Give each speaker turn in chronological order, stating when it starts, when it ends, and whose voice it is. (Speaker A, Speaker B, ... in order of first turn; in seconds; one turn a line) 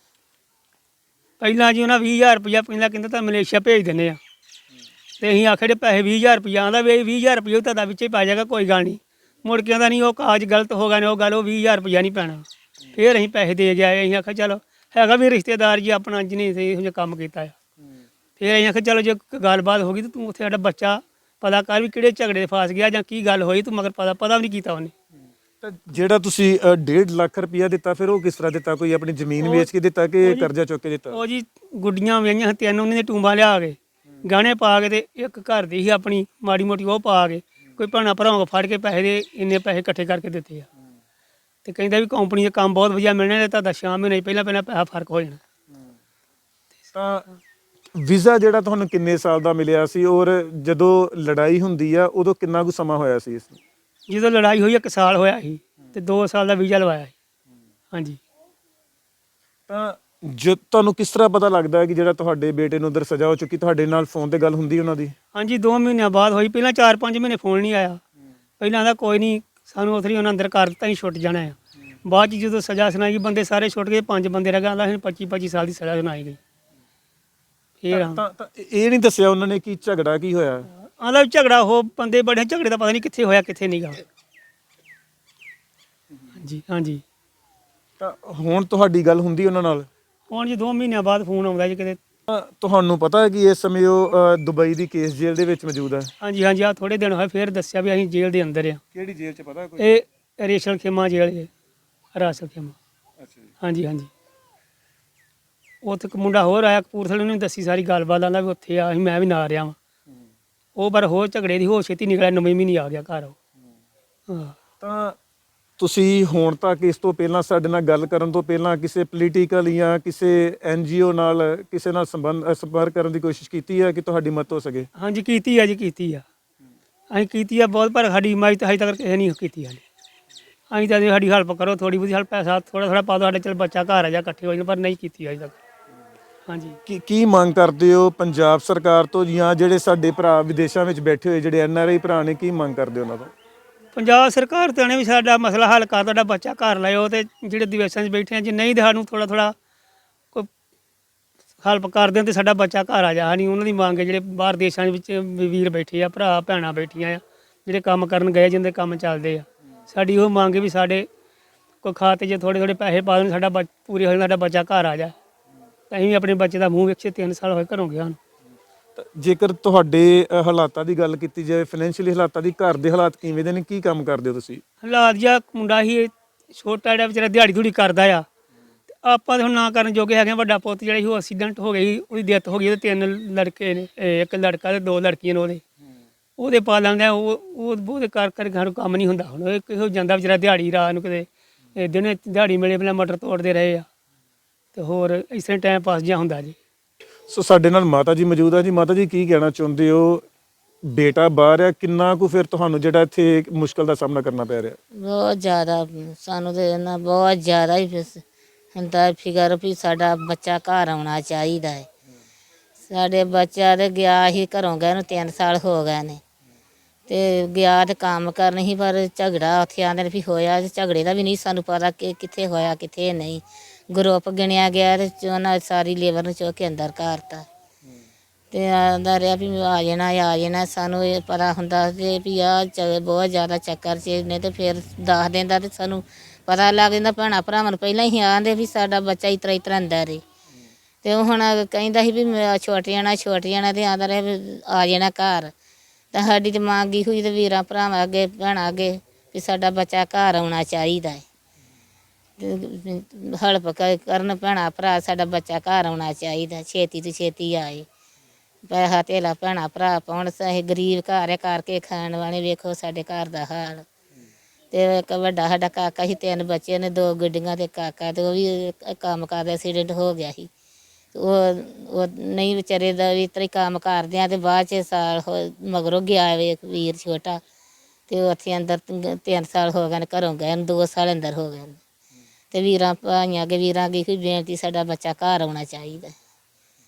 Speaker A: 1.4-4.2
Speaker A: 5.2-17.6
Speaker A: 18.4-24.9
Speaker B: 25.6-31.2
Speaker A: 29.4-29.7
Speaker A: 30.2-30.5
Speaker A: 31.1-40.7
Speaker A: 41.6-45.4
Speaker B: 46.9-47.3
Speaker B: 48.0-53.6
Speaker A: 54.1-57.1
Speaker A: 57.9-58.2
Speaker B: 59.7-65.1
Speaker A: 65.3-68.0
Speaker A: 68.6-76.4
Speaker A: 77.8-78.2
Speaker B: 77.9-80.7
Speaker A: 80.8-84.0
Speaker A: 86.4-87.0
Speaker B: 88.0-89.9
Speaker A: 90.3-92.0
Speaker B: 92.3-96.1
Speaker A: 96.2-98.8
Speaker B: 98.9-100.0
Speaker A: 99.8-101.5
Speaker A: 102.2-102.8
Speaker B: 103.2-103.5
Speaker A: 103.6-104.1
Speaker A: 105.8-109.8
Speaker A: 110.8-113.3
Speaker A: 114.3-114.5
Speaker B: 114.8-115.2
Speaker B: 115.8-124.9
Speaker A: 125.0-126.2
Speaker A: 127.1-129.8
Speaker A: 130.7-135.6
Speaker A: 136.5-136.8
Speaker B: 136.9-143.3
Speaker A: 143.9-149.6
Speaker A: 151.6-161.1
Speaker A: 161.8-165.2
Speaker A: 165.9-168.2
Speaker B: 169.0-174.6
Speaker A: 174.8-178.2
Speaker A: 179.0-185.6
Speaker A: 186.4-193.9
Speaker A: 194.8-196.6
Speaker B: 197.3-200.2
Speaker B: 200.8-204.8
Speaker C: 204.9-208.2
Speaker C: 208.8-211.9
Speaker C: 212.9-216.2
Speaker C: 217.1-227.5
Speaker C: 228.5-240.2
Speaker C: 241.0-245.5
Speaker C: 246.1-251.2
Speaker C: 252.4-257.9
Speaker C: 258.7-263.9
Speaker C: 264.7-270.5
Speaker C: 271.1-277.4
Speaker C: 278.1-281.8
Speaker C: 282.5-286.1